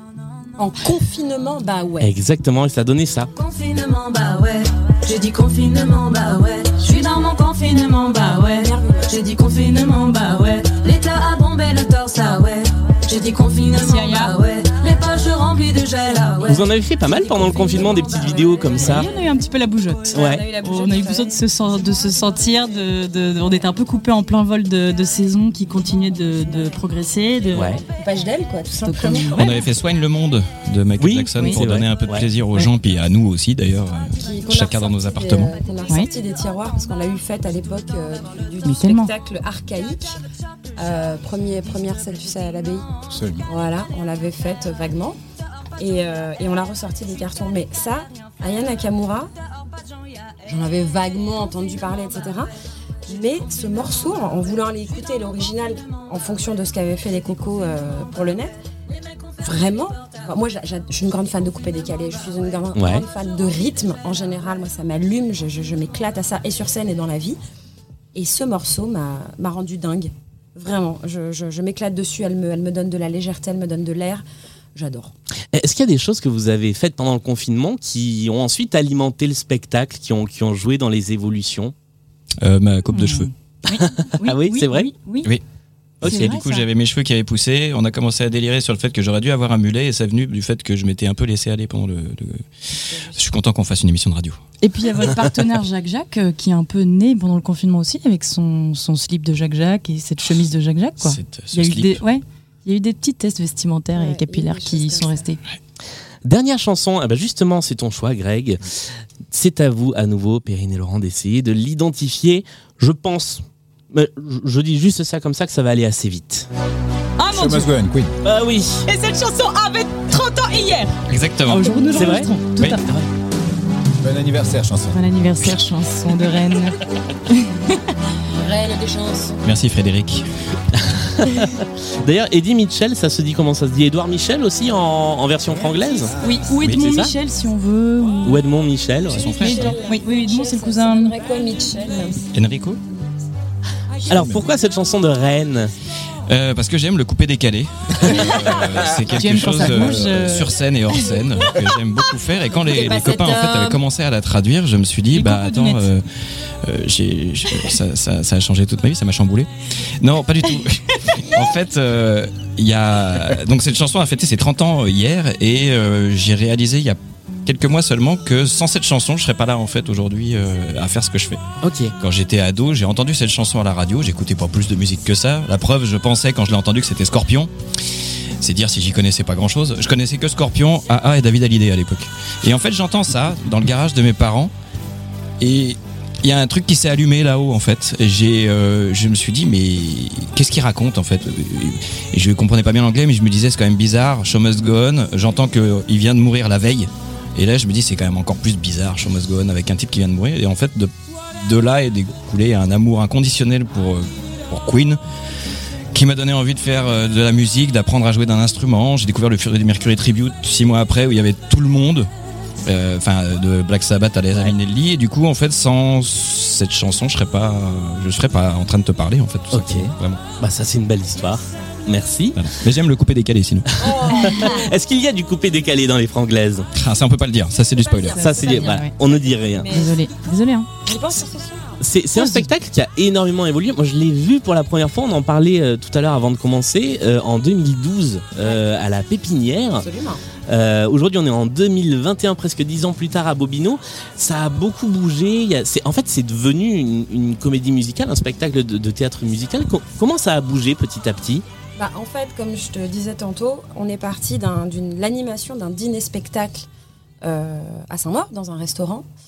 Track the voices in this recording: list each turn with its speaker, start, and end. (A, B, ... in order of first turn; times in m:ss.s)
0:00.6-0:02.1 A
0:02.0-0:03.3 B
0:03.4-0:16.7 C
0:08.6-0:09.1 A
0:13.7-0:14.4 D
0:16.5-0:19.1 B
0:18.7-0:27.8 D
0:20.1-0:21.4 A
0:20.1-0:20.5 B
0:27.5-0:27.8 B
0:27.9-0:29.5 A
0:28.8-0:29.6 D
0:29.4-0:35.6 E
0:31.0-0:32.3 B
0:31.4-0:31.6 D
0:34.2-0:40.2 A
0:38.6-0:39.1 D
0:40.8-0:42.9 A
0:43.1-0:43.4 F
0:43.4-0:45.2 A
0:45.8-0:49.3 A
0:50.5-0:52.5 A
0:53.1-0:58.5 A
0:59.4-1:07.4 A
1:02.8-1:03.0 B
1:08.2-1:14.2 A
1:14.8-1:15.1 A
1:15.5-1:21.7 B
1:22.4-1:23.3 E
1:22.9-1:25.3 D
1:23.7-1:24.9 B
1:26.0-1:26.4 B
1:26.0-1:32.4 E
1:26.0-1:26.7 D
1:32.9-1:33.2 A
1:33.1-1:34.4 E
1:34.6-1:45.4 D
1:41.0-1:42.0 E
1:44.0-1:45.2 A
1:46.2-1:48.6 B
1:49.3-1:56.5 B
1:57.2-1:57.7 D
1:57.3-1:58.1 F
1:58.2-1:58.9 B
1:58.9-2:02.8 D
2:01.1-2:01.8 E
2:01.9-2:02.3 B
2:04.0-2:05.0 F
2:04.9-2:06.8 D
2:07.3-2:07.8 D
2:08.4-2:09.4 A
2:09.4-2:10.2 E
2:10.8-2:16.1 B
2:16.2-2:18.4 D
2:16.7-2:17.1 B
2:18.2-2:19.4 B
2:19.1-2:19.8 E
2:19.2-2:22.2 A
2:19.4-2:21.2 D
2:22.3-2:22.8 E
2:24.1-2:25.7 B
2:24.1-2:24.4 E
2:26.3-2:36.0 E
2:28.2-2:29.1 F
2:29.2-2:30.6 D
2:29.7-2:30.1 F
2:32.6-2:33.8 A
2:35.1-2:35.9 D
2:36.6-2:39.5 E
2:40.0-2:51.4 E
2:51.6-2:52.0 B
2:52.0-2:57.5 E
2:58.4-3:04.5 E
3:05.4-3:25.0 E
3:25.9-3:32.1 E
3:32.6-3:40.2 E
3:39.5-3:42.4 B
3:42.4-3:43.9 E
3:43.8-3:44.7 A
3:43.8-3:46.7 B
3:46.8-3:48.3 E
3:47.8-3:50.1 A
3:48.2-3:49.7 B
3:48.2-3:48.9 D
3:49.7-3:50.7 D
3:50.8-3:51.8 A
3:51.8-3:59.9 B
3:52.2-3:52.5 D
3:58.4-3:58.7 A
3:59.8-4:00.2 A
4:00.5-4:11.4 B
4:11.8-4:16.7 A
4:17.2-4:19.1 A